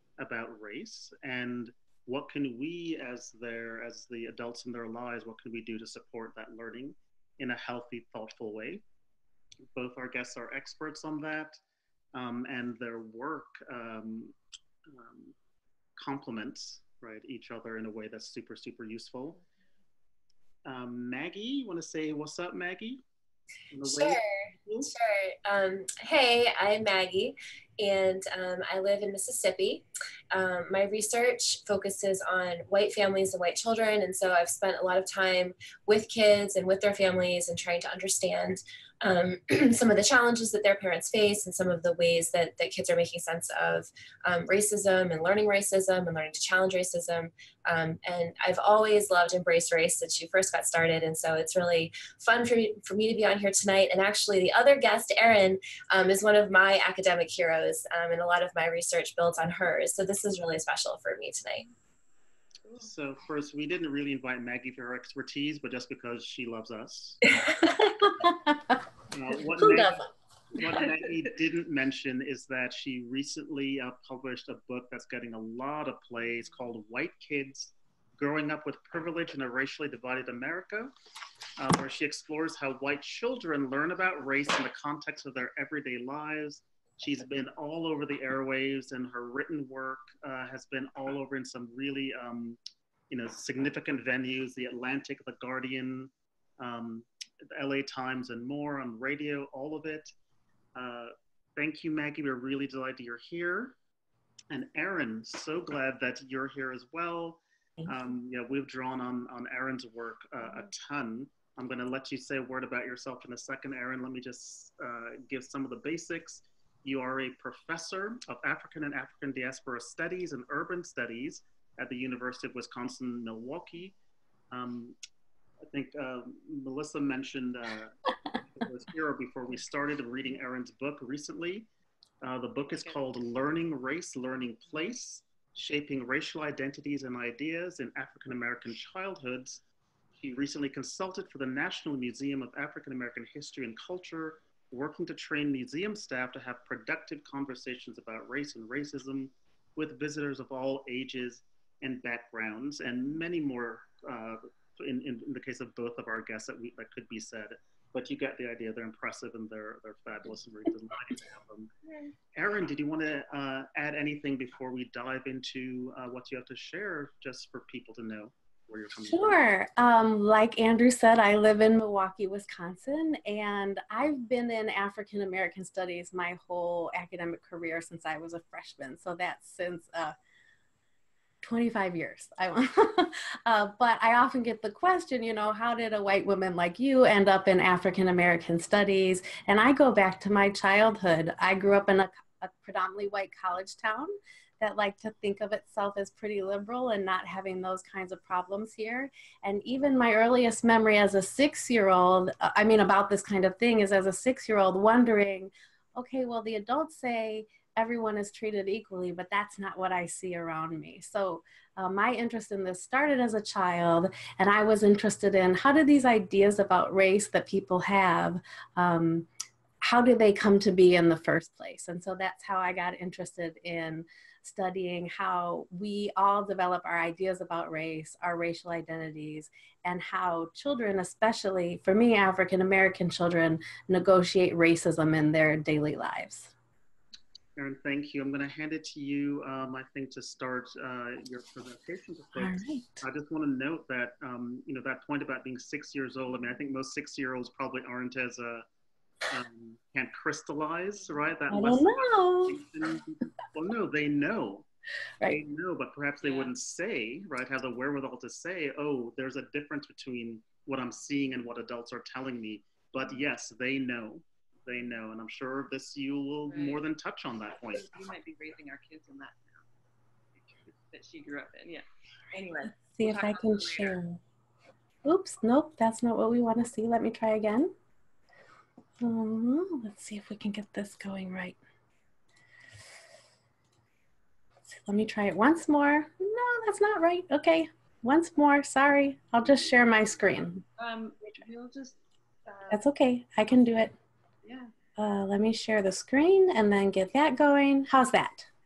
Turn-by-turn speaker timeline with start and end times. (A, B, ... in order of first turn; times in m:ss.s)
0:00.2-0:08.8 A
0:09.8-0:11.6 A
0:12.1-0:14.4 A
0:14.9-0:15.4 A
0:16.0-0:19.4 A
0:20.6-0:23.0 A
0:23.7-0:24.9 A
0:23.8-1:01.7 B
1:02.8-1:07.2 A
1:07.5-1:07.8 B
1:09.1-1:10.0 A
1:09.6-1:10.1 B
1:10.5-1:20.9 A
1:21.6-1:32.6 A
1:33.1-1:40.1 A
1:40.8-1:43.8 A
1:44.5-2:04.0 A
2:04.5-2:05.0 A
2:05.7-2:11.7 A
2:12.2-2:41.7 A
2:42.3-2:49.4 A
2:49.1-3:00.2 C
3:01.4-3:39.3 C
3:39.8-3:56.5 C
3:57.6-4:08.7 A
4:02.4-4:03.0 C
4:09.3-4:14.7 A
4:11.5-4:12.6 C
4:15.3-4:27.9 A
4:16.2-4:16.5 D
4:26.5-4:26.8 D
4:27.7-4:29.6 D
4:30.5-4:34.0 D
4:32.8-4:34.2 C
4:35.0-4:37.7 C
4:39.0-4:41.6 C
4:44.7-4:50.6 C
4:50.8-4:52.8 D
4:52.7-4:53.9 C
4:54.4-4:54.7 D
4:55.0-4:58.5 C